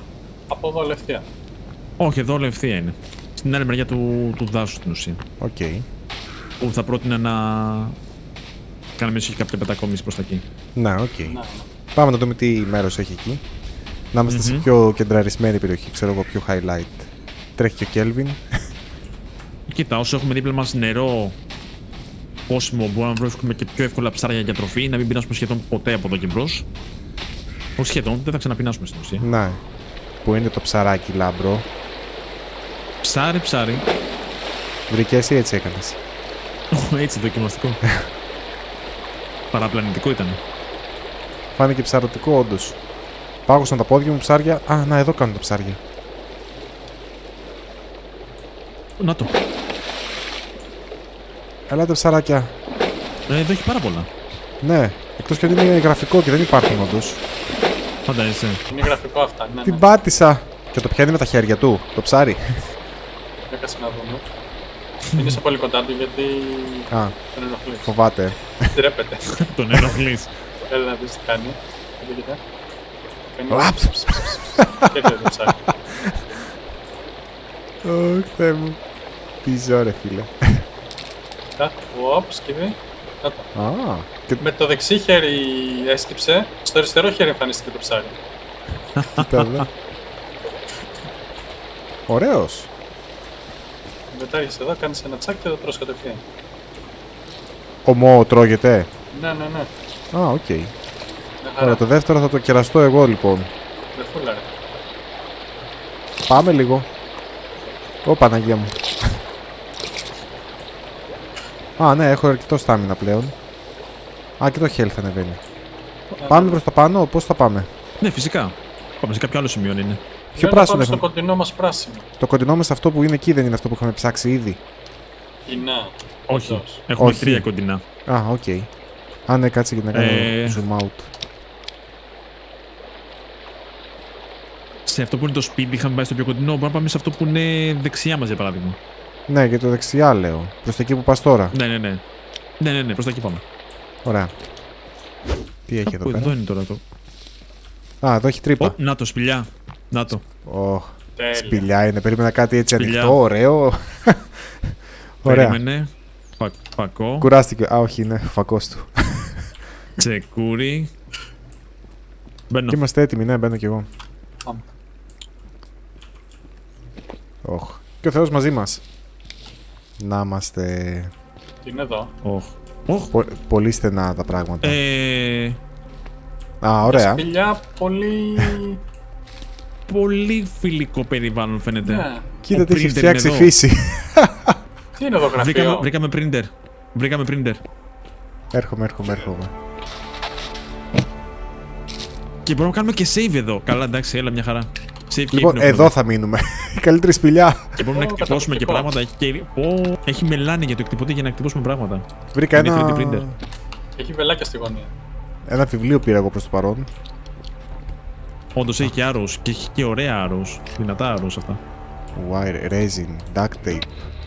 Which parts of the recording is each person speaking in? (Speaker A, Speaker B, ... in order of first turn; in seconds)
Speaker A: 0.5-1.2, 11.3-11.7, 58.7-59.9, 63.5-64.2, 65.1-67.9, 68.7-69.4, 70.7-72.4, 73.3-75.6, 81.6-83.5, 84.4-88.1, 94.1-96.2, 99.1-99.7, 101.4-101.8, 103.9-104.5, 116.2-116.6, 120.3-122.0, 125.5-126.8, 151.2-151.7, 171.6-172.1, 176.8-178.8, 181.8-182.3, 185.0-185.9, 197.9-198.9, 204.0-204.9
Speaker B: 2.0-5.2, 6.6-8.0, 9.0-10.4, 14.2-14.7, 19.7-21.3, 22.5-26.6, 27.8-29.2, 33.0-33.8, 36.7-37.8, 39.5-40.4, 49.0-49.3, 53.3-54.1, 58.1-58.6, 69.2-70.3, 89.0-89.6, 118.0-120.0, 126.3-127.8, 129.9-130.6, 134.8-138.8, 141.5-142.0, 142.6-143.4, 145.8-146.8, 148.6-150.2, 152.8-153.2, 155.2-157.3, 160.0-160.9, 162.5-162.8, 172.2-173.1, 174.6-175.6, 179.9-183.5, 185.3-187.6, 192.4-195.9, 197.8-203.2, 208.5-211.6
Speaker C: 5.4-5.8, 10.8-11.4, 11.9-13.4, 14.1-18.4, 29.2-29.6, 30.2-31.6, 34.9-36.0, 41.5-42.8, 43.5-45.8, 51.7-52.5, 54.6-57.2, 59.6-62.7, 66.9-67.2, 67.8-68.7, 73.5-75.3, 75.9-76.2, 77.8-78.8, 79.4-80.6, 83.5-84.4, 89.1-89.7, 92.1-92.7, 97.8-98.9, 100.1-100.7, 101.6-103.5, 106.3-106.9, 108.0-109.1, 111.8-113.3, 114.4-115.4, 116.2-117.7, 120.3-121.0, 122.2-124.6, 127.0-127.5, 128.1-128.7, 129.3-131.1, 139.3-141.6, 144.0-144.3, 145.7-146.3, 148.0-148.8, 150.4-154.3, 155.2-155.6, 157.2-159.4, 162.7-163.8, 167.4-168.8, 170.0-171.1, 173.1-174.8, 176.6-177.2, 182.4-184.6, 188.5-189.5, 195.3-197.8, 202.3-203.4, 205.5-206.9, 212.1-213.9